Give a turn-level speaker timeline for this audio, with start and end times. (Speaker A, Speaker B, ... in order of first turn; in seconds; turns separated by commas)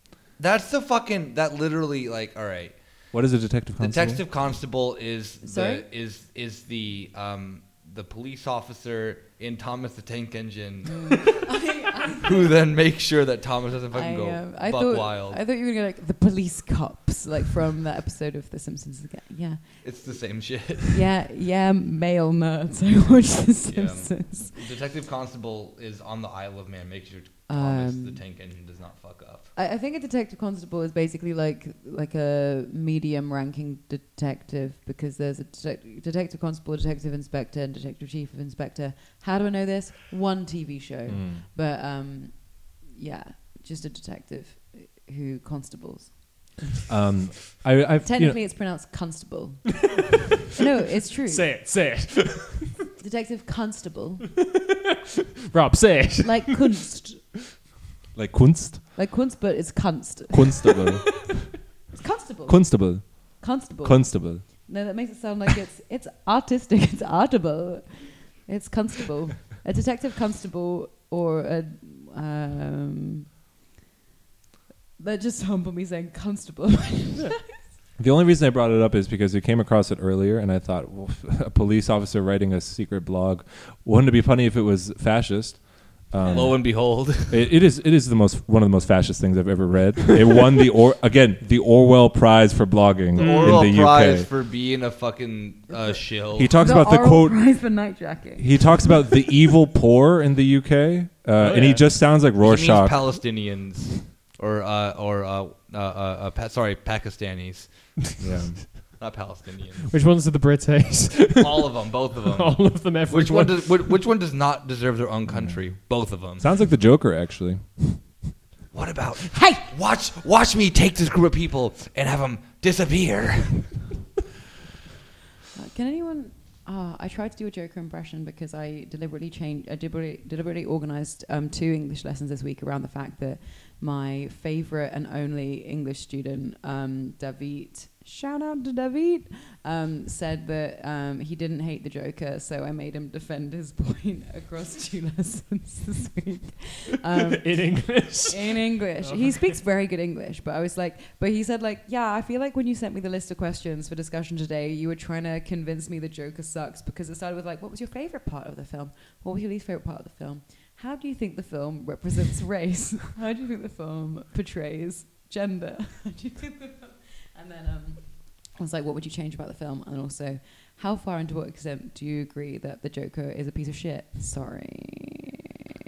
Speaker A: 0.4-2.8, Speaker B: 3.1-4.2, Speaker A: 3.8-11.6, Speaker C: 5.4-5.8, Speaker C: 10.9-12.6, Speaker A: 12.1-15.4, Speaker C: 13.9-20.2, Speaker A: 19.8-21.0, Speaker C: 20.9-24.6, Speaker A: 23.7-29.5, Speaker C: 27.5-28.2, Speaker C: 29.5-46.2, Speaker B: 41.1-41.4, Speaker B: 46.9-48.5, Speaker C: 48.0-49.8, Speaker C: 50.5-51.5, Speaker D: 51.3-52.7, Speaker C: 53.0-54.3, Speaker D: 55.5-56.6, Speaker C: 56.2-57.2, Speaker B: 58.1-58.8, Speaker C: 58.9-60.8, Speaker B: 60.3-61.3, Speaker C: 61.9-73.2, Speaker B: 62.5-64.4, Speaker C: 75.0-77.5, Speaker B: 78.0-94.3, Speaker C: 86.2-86.5, Speaker A: 86.3-87.5, Speaker D: 93.1-93.7, Speaker A: 93.2-96.6, Speaker C: 95.8-99.3, Speaker B: 96.3-97.6, Speaker B: 98.4-103.2, Speaker D: 101.4-101.9, Speaker A: 102.4-109.9, Speaker B: 108.2-108.7, Speaker D: 109.9-114.0, Speaker A: 111.3-116.5, Speaker B: 115.3-115.6, Speaker B: 116.2-118.2, Speaker A: 118.7-123.8, Speaker C: 119.3-119.6, Speaker C: 125.5-175.2, Speaker D: 147.4-149.6